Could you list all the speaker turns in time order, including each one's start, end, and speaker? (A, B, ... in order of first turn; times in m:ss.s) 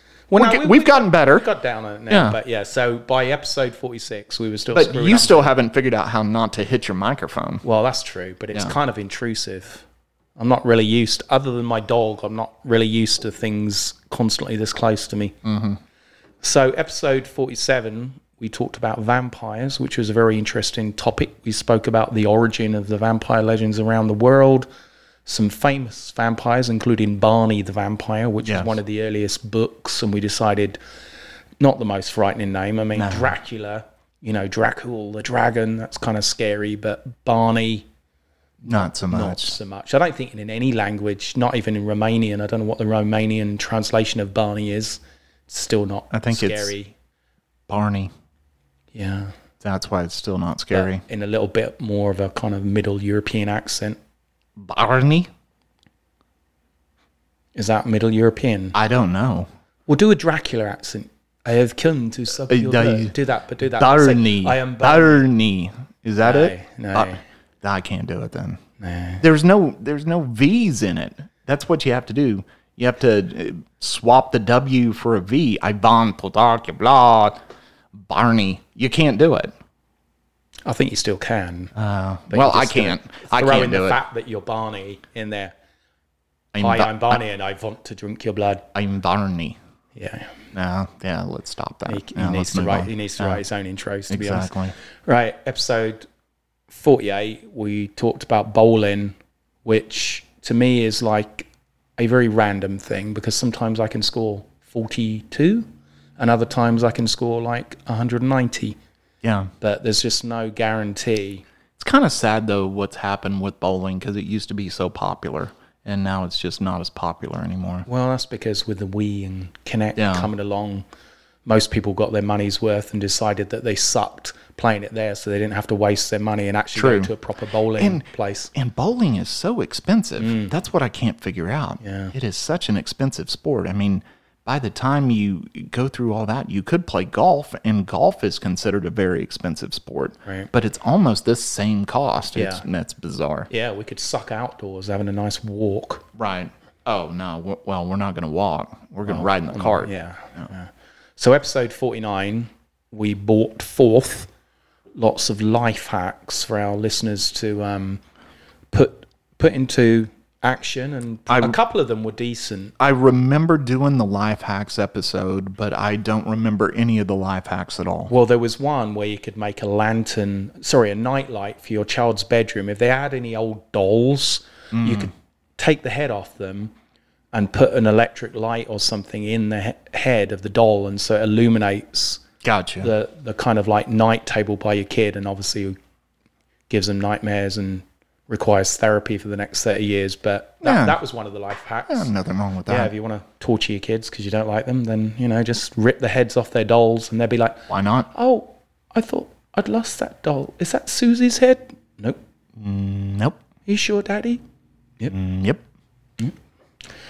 0:00.3-0:05.5 A
0:00.3-0:01.5 B
0:02.1-0:02.4 B
0:04.7-0:07.6 B
0:07.6-0:09.8 A
0:10.4-0:15.4 A
0:15.4-0:15.8 B
0:16.4-0:24.7 A
0:25.2-0:30.8 A
0:28.4-0:28.7 B
0:31.6-0:37.9 A
0:32.9-0:33.3 B
0:38.6-0:46.9 A
0:38.6-0:39.6 B
0:46.1-0:46.7 B
0:47.7-0:48.1 B
0:48.9-0:49.3 A
0:49.6-0:51.0 B
0:50.7-0:54.0 A
0:54.6-0:55.3 B
0:57.6-0:58.8 A
0:58.7-0:59.5 B
0:59.9-1:05.2 A
1:02.5-1:03.1 B
1:03.8-1:08.6 B
1:06.2-1:07.2 A
1:08.8-1:09.2 A
1:09.2-1:17.4 B
1:17.9-1:19.5 B
1:20.6-1:21.7 A
1:21.7-1:24.0 B
1:22.3-1:25.5 A
1:26.5-1:27.2 B
1:26.6-1:28.7 A
1:28.7-1:29.6 B
1:29.9-1:30.3 A
1:30.5-1:33.4 B
1:31.9-1:34.5 A
1:34.1-1:34.7 B
1:35.0-1:36.1 A
1:36.7-1:48.8 A
1:49.2-1:49.5 B
1:49.6-1:51.4 A
1:51.8-1:57.9 B
1:57.9-2:00.8 A
2:00.0-2:00.3 B
2:01.4-2:08.5 A
2:06.7-2:07.1 B
2:07.8-2:23.5 B
2:10.2-2:10.5 A
2:11.8-2:12.1 A
2:22.3-2:22.6 A
2:23.5-2:26.0 A
2:26.2-2:30.5 B
2:29.1-2:34.3 A
2:34.9-2:38.0 A
2:38.7-2:42.7 A
2:41.3-2:41.6 B
2:42.8-2:48.1 B
2:48.1-2:56.7 A
2:54.7-2:55.1 B
2:57.3-3:02.2 A
3:02.4-3:02.9 B
3:02.8-3:05.8 A
3:06.7-3:12.1 A
3:10.6-3:11.0 B
3:11.9-3:12.9 B
3:12.7-3:22.2 A
3:17.7-3:18.1 B
3:22.6-3:23.4 B
3:23.6-3:24.4 A
3:25.1-3:25.6 B